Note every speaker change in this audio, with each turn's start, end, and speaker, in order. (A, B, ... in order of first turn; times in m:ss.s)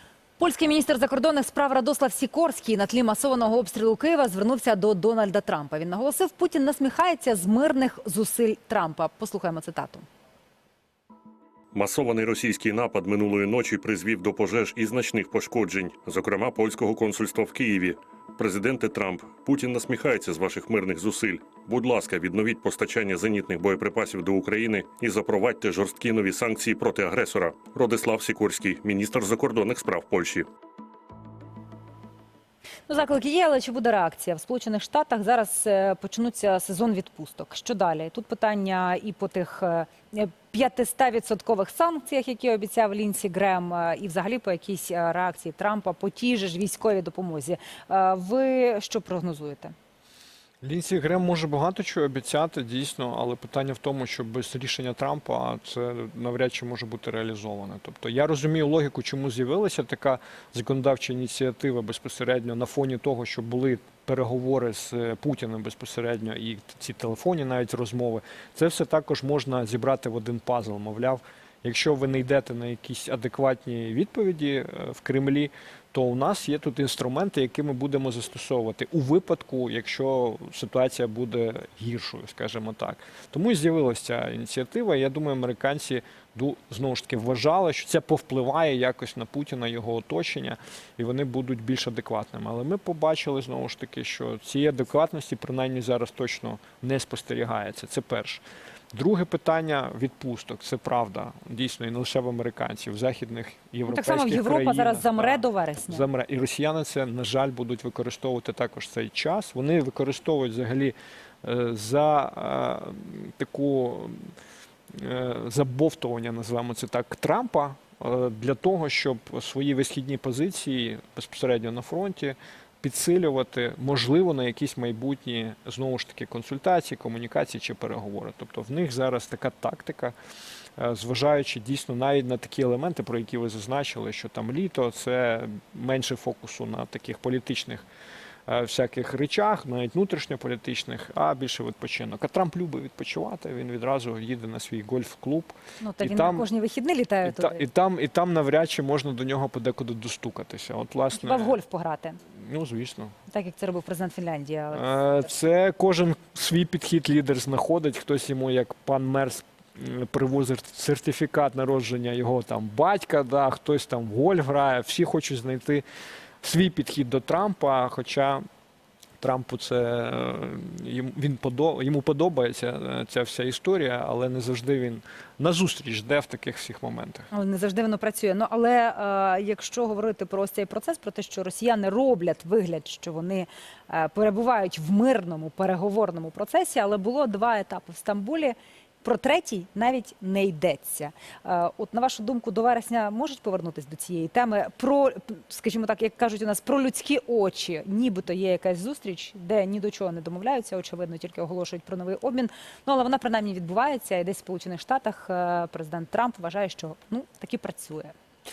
0:00.4-0:10.0 A
0:11.7-0:30.5 B
0:32.9-0:49.7 A
0:50.6-1:54.3 C
1:43.9-1:46.0 A
1:54.9-2:10.1 C
2:10.8-2:17.8 C
2:18.5-2:26.4 C
2:25.8-2:27.6 A
2:27.2-2:31.6 C
2:31.1-2:32.2 A
2:32.3-2:33.1 C
2:33.3-2:35.0 A
2:34.7-2:45.8 C
2:46.4-2:48.4 C
2:49.2-2:57.3 C
2:57.3-3:28.1 A